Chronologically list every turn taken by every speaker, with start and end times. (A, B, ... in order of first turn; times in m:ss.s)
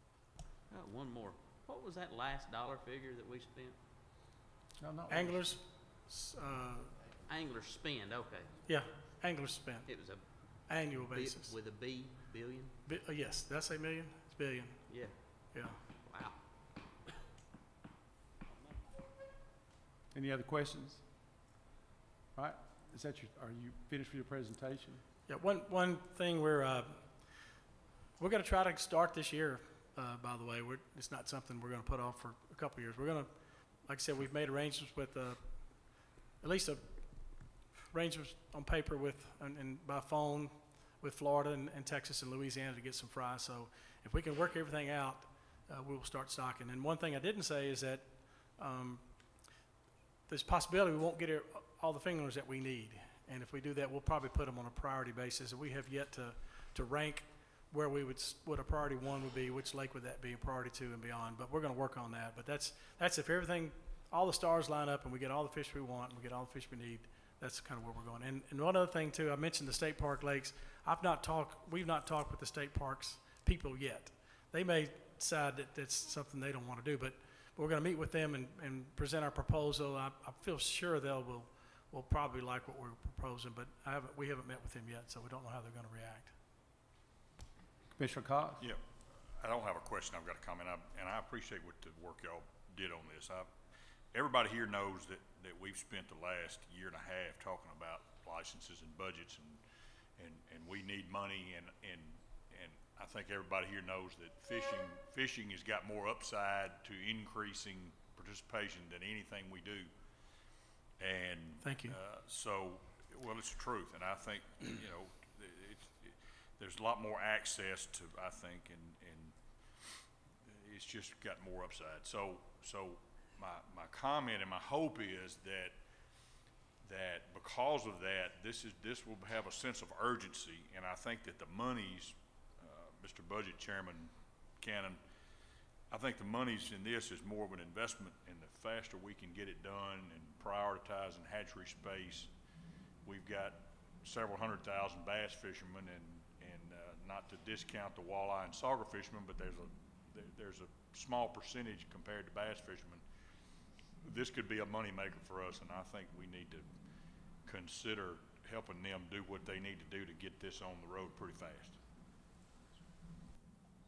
0:00.7-0:03.8 A
0:04.8-0:05.6 B
0:05.1-0:06.9 C
0:07.3-0:08.6 A
0:08.7-0:09.9 C
0:09.9-0:12.7 A
0:10.6-0:11.5 C
0:12.9-0:15.8 C
0:14.9-0:15.4 A
0:16.0-0:16.4 A
0:18.5-0:18.8 A
0:20.1-0:21.1 B
0:22.4-0:25.0 B
0:25.3-0:27.4 C
0:28.2-0:49.5 C
0:50.3-1:26.3 C
1:28.0-1:28.6 B
1:29.4-1:33.5 D
1:34.1-1:39.6 D
1:40.2-1:49.9 D
1:51.0-1:59.3 D
1:51.6-1:52.0 C
2:00.4-2:05.7 D
2:06.8-2:15.0 D
2:15.9-2:22.3 D
2:23.0-2:33.0 D
2:34.0-2:36.7 D
2:37.5-2:41.8 D